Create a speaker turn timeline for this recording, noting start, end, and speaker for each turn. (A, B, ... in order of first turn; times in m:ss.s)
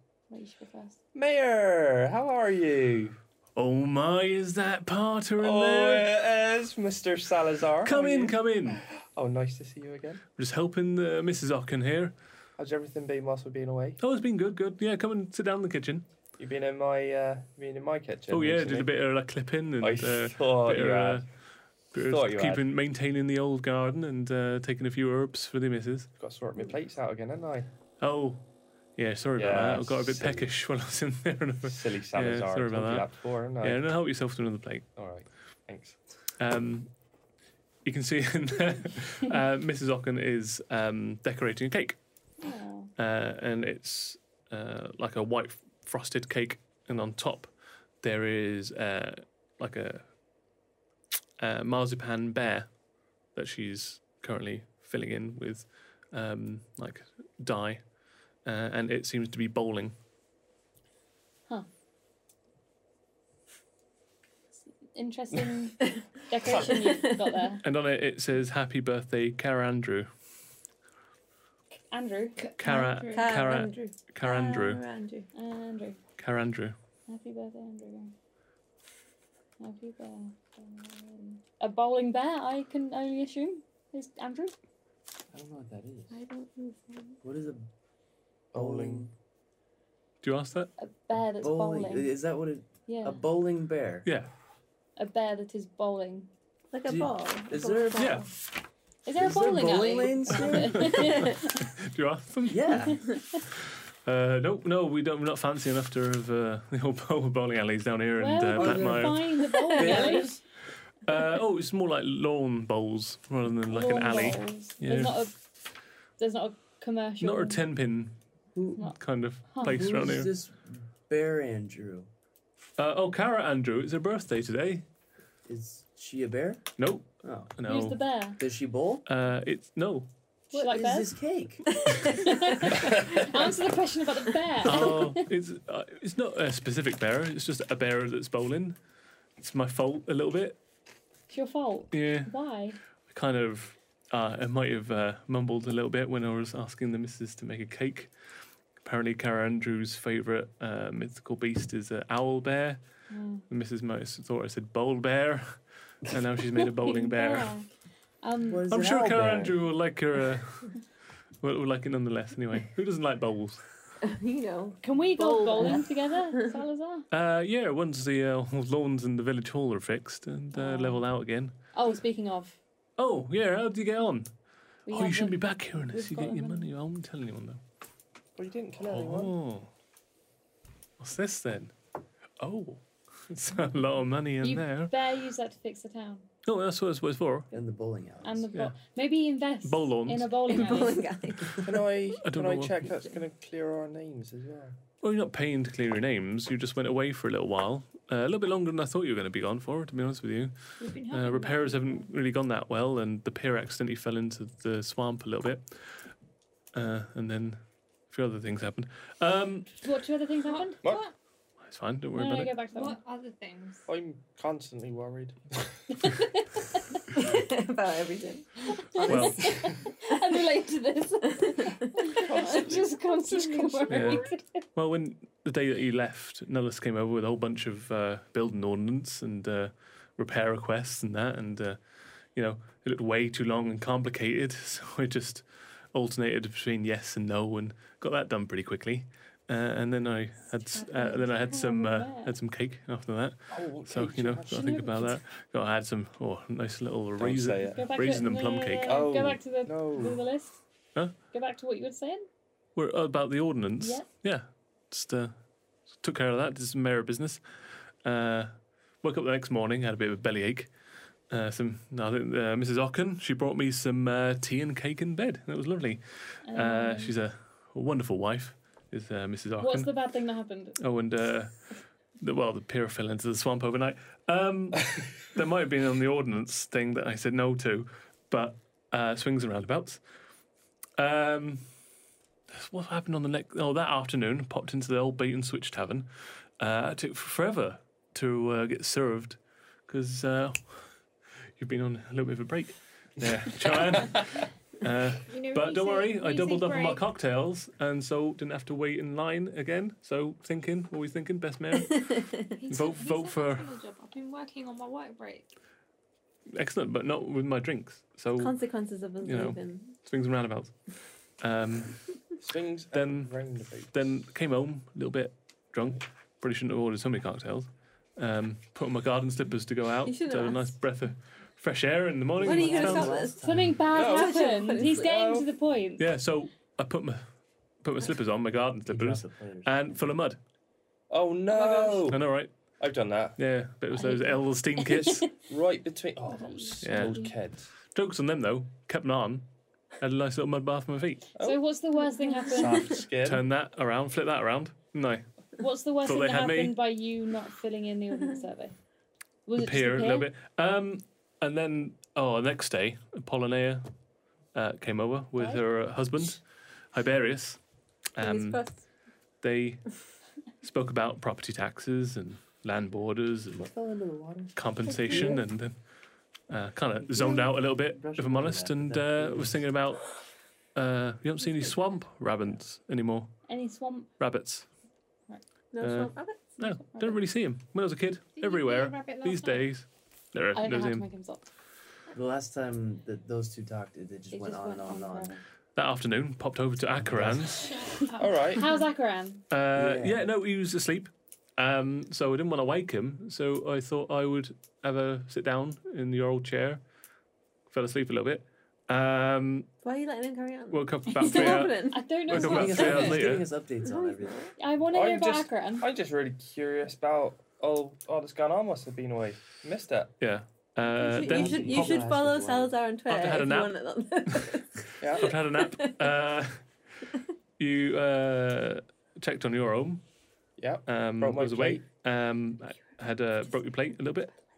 0:00.3-0:01.0 A
0:01.1-0:03.2 B
0:03.6-0:06.1 C
0:05.4-0:10.2 B
0:07.8-0:08.8 C
0:10.4-0:12.1 C
0:12.6-0:14.0 B
0:14.0-0:16.1 C
0:16.4-0:18.9 B
0:18.3-0:21.3 C
0:19.8-0:21.2 B
0:21.9-0:26.1 C
0:22.1-0:22.7 B
0:26.2-0:27.7 B
0:28.0-0:28.4 C
0:29.0-0:34.9 C
0:29.4-0:30.5 B
0:31.6-0:33.8 B
0:35.0-0:36.0 B
0:36.4-0:36.9 C
0:37.8-0:42.0 C
0:42.4-0:42.9 A
0:43.0-0:50.1 C
0:51.4-0:52.7 C
0:53.3-0:57.9 C
0:58.4-1:00.0 C
1:04.8-1:07.6 A
1:06.6-1:07.2 D
1:07.6-1:10.1 C
1:11.7-1:12.6 A
1:12.4-1:13.4 E
1:12.6-1:14.8 C
1:12.6-1:15.3 D
1:15.3-1:16.0 A
1:16.2-1:16.8 C
1:17.1-1:18.1 A
1:19.6-1:24.5 A
1:25.3-1:26.2 F
1:26.1-1:27.2 D
1:27.2-1:27.7 F
1:28.5-1:29.1 B
1:28.5-1:29.1 F
1:30.2-1:30.7 C
1:30.8-1:32.1 A
1:31.4-1:34.1 F
1:32.9-1:33.2 A
1:34.0-1:34.3 C
1:35.0-1:36.3 A
1:36.7-1:38.3 D
1:36.9-1:38.2 F
1:38.0-1:38.3 C
1:39.0-1:41.7 A
1:39.2-1:41.3 F
1:40.8-1:42.6 C
1:42.5-1:43.1 F
1:42.9-1:43.4 A
1:44.0-1:49.5 C
1:48.2-1:50.4 A
1:48.5-1:50.4 F
1:49.5-1:50.1 D
1:51.0-1:55.3 C
1:53.7-1:55.4 A
1:56.2-1:57.6 A
1:57.2-1:58.2 C
1:58.5-1:58.9 F
1:58.9-2:00.3 C
1:59.5-1:59.8 A
1:59.6-2:02.1 F
2:02.8-2:04.9 C
2:05.5-2:07.5 F
2:06.8-2:08.0 C
2:07.7-2:08.4 A
2:08.4-2:09.0 F
2:09.1-2:10.1 C
2:10.5-2:11.2 A
2:10.5-2:11.7 F
2:11.8-2:12.7 D
2:12.1-2:15.3 A
2:14.6-2:18.8 C
2:19.4-2:20.6 C
2:21.3-2:22.8 A
2:21.9-2:22.3 C
2:23.1-2:28.1 C
2:28.8-2:32.8 C
2:33.1-2:33.4 A
2:33.5-2:37.5 C
2:36.8-2:37.7 A
2:38.2-2:38.7 A
2:38.4-2:39.6 F
2:38.7-2:40.8 C
2:41.4-2:43.6 C
2:44.0-2:46.6 D
2:44.8-2:47.1 A
2:47.1-2:51.6 C
2:50.5-2:51.0 A
2:51.7-2:52.6 A
2:53.0-2:54.3 C
2:54.9-2:56.7 A
2:54.9-2:57.6 C
2:58.4-2:59.3 B
2:58.9-2:59.7 C
3:01.0-3:01.7 C
3:02.4-3:04.9 C
3:04.4-3:06.3 A
3:06.5-3:07.5 C
3:07.5-3:08.5 F
3:08.2-3:11.1 A
3:09.6-3:10.5 C
3:10.5-3:12.2 D
3:11.6-3:14.8 B
3:12.2-3:12.9 C
3:15.0-3:26.1 C
3:20.8-3:22.1 E
3:26.7-3:29.8 C
3:29.8-3:31.0 A
3:30.4-3:31.1 E
3:31.6-3:32.6 C
3:32.1-3:33.0 A
3:32.7-3:33.9 E
3:33.9-3:35.8 B
3:36.0-3:36.7 A
3:37.2-3:39.4 D
3:38.9-3:44.6 A
3:39.1-3:39.5 F
3:39.1-3:39.6 C
3:41.4-3:42.2 D
3:42.2-3:44.0 B
3:43.9-3:51.8 C
3:52.3-4:09.1 C
4:00.8-4:01.3 D
4:01.0-4:02.4 A
4:03.5-4:04.9 B
4:04.5-4:05.1 A
4:07.2-4:07.9 B
4:07.7-4:10.6 A
4:08.8-4:10.2 B
4:11.2-4:12.3 A
4:12.8-4:15.4 C
4:13.8-4:14.1 A
4:16.0-4:17.4 C
4:18.0-4:20.7 C
4:21.3-4:29.9 C
4:26.4-4:27.2 A
4:29.6-4:30.8 A
4:30.8-4:40.0 C
4:41.0-4:41.7 C
4:42.5-4:51.1 C
4:51.6-5:03.7 C
4:55.2-4:57.0 E
5:01.9-5:02.5 D
5:02.6-5:05.5 E
5:06.5-5:08.6 C
5:08.4-5:09.9 D
5:09.2-5:10.8 C
5:11.4-5:12.2 C
5:12.4-5:14.1 B
5:12.9-5:23.3 C
5:20.0-5:20.8 D
5:22.4-5:23.9 F
5:22.4-5:25.2 D
5:23.4-5:26.1 A
5:23.9-5:25.5 B
5:26.0-5:27.3 C
5:27.8-5:30.4 C
5:28.8-5:30.1 F
5:31.1-5:32.2 B
5:31.5-5:32.1 D
5:32.1-5:32.5 C
5:32.8-5:33.4 B
5:33.4-5:35.3 C
5:33.9-5:35.3 A
5:35.5-5:37.7 B
5:36.3-5:37.3 A
5:36.8-5:37.2 C
5:37.9-5:39.5 C
5:40.0-5:41.3 C
5:41.4-5:41.7 B
5:41.4-5:43.0 A
5:42.5-5:43.4 B
5:43.2-5:45.3 C
5:45.6-5:48.8 A
5:46.0-5:46.8 C
5:49.5-5:50.3 A
5:49.6-5:53.9 C
5:54.5-5:57.6 C
5:58.2-5:58.6 C
5:58.2-5:58.8 D
5:59.4-5:59.9 C
6:00.6-6:03.7 C
6:03.5-6:04.6 F
6:04.6-6:05.8 C
6:04.8-6:05.4 D
6:06.5-6:10.2 C
6:07.0-6:09.7 F
6:10.7-6:13.4 C
6:13.5-6:14.1 A
6:14.2-6:14.7 C
6:15.7-6:16.5 D
6:15.8-6:21.1 C
6:16.6-6:17.2 A
6:18.4-6:19.7 E
6:20.6-6:21.5 A
6:22.1-6:25.4 F
6:24.3-6:25.4 A
6:25.8-6:27.9 C
6:27.0-6:27.6 F
6:27.6-6:28.8 E
6:28.2-6:28.7 B
6:28.6-6:29.4 A
6:29.5-6:36.8 C
6:29.7-6:30.2 F
6:37.7-6:39.7 C
6:39.8-6:42.0 D
6:40.7-6:43.5 C
6:41.3-6:43.2 A
6:42.3-6:44.5 F
6:43.8-6:44.6 D
6:44.6-6:45.9 A
6:44.9-6:50.1 B
6:50.2-6:52.0 C
6:50.9-6:56.2 D
6:51.1-6:52.8 F
6:53.1-6:56.6 C
6:55.0-6:55.4 B
6:57.6-7:00.0 C
7:00.6-7:01.8 B
7:00.9-7:04.4 C